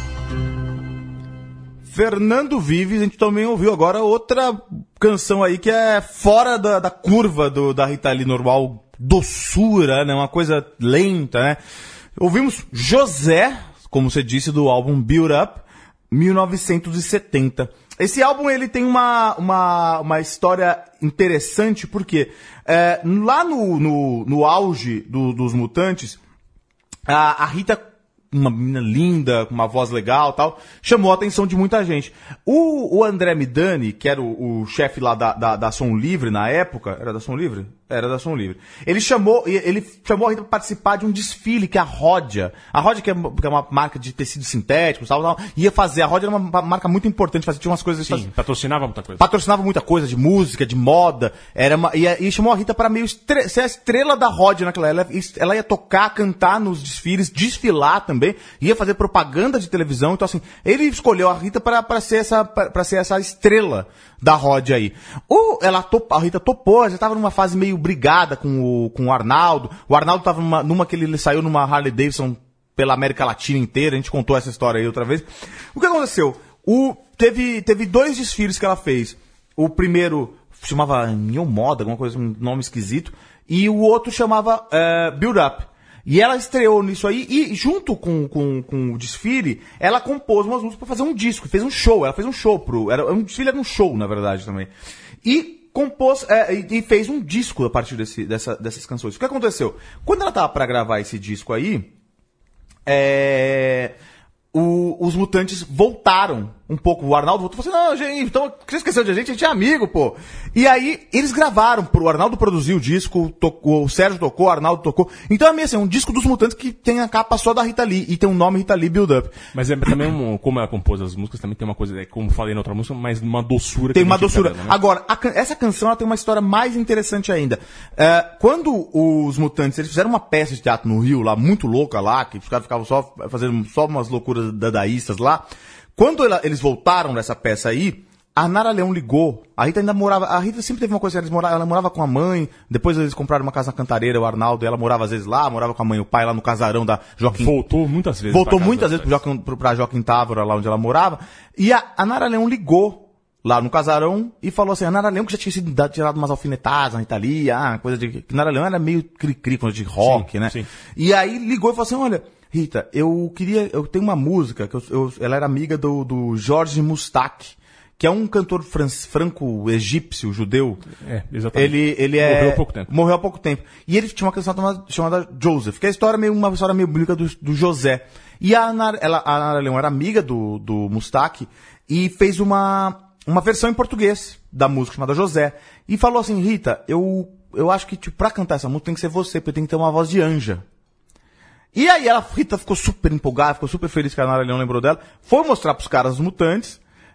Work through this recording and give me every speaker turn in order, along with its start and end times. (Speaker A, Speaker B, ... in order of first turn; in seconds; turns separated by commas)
Speaker A: 1.9-11.6, Speaker A: 12.2-26.2, Speaker A: 27.1-48.3, Speaker B: 48.0-49.3, Speaker A: 49.2-94.7, Speaker A: 95.2-101.9, Speaker A: 102.9-104.0, Speaker A: 104.5-119.4, Speaker B: 119.5-124.8, Speaker A: 123.9-147.6, Speaker B: 147.3-149.2, Speaker A: 148.3-170.9, Speaker B: 160.0-160.7, Speaker B: 171.0-172.9, Speaker A: 171.5-190.7, Speaker A: 191.7-196.8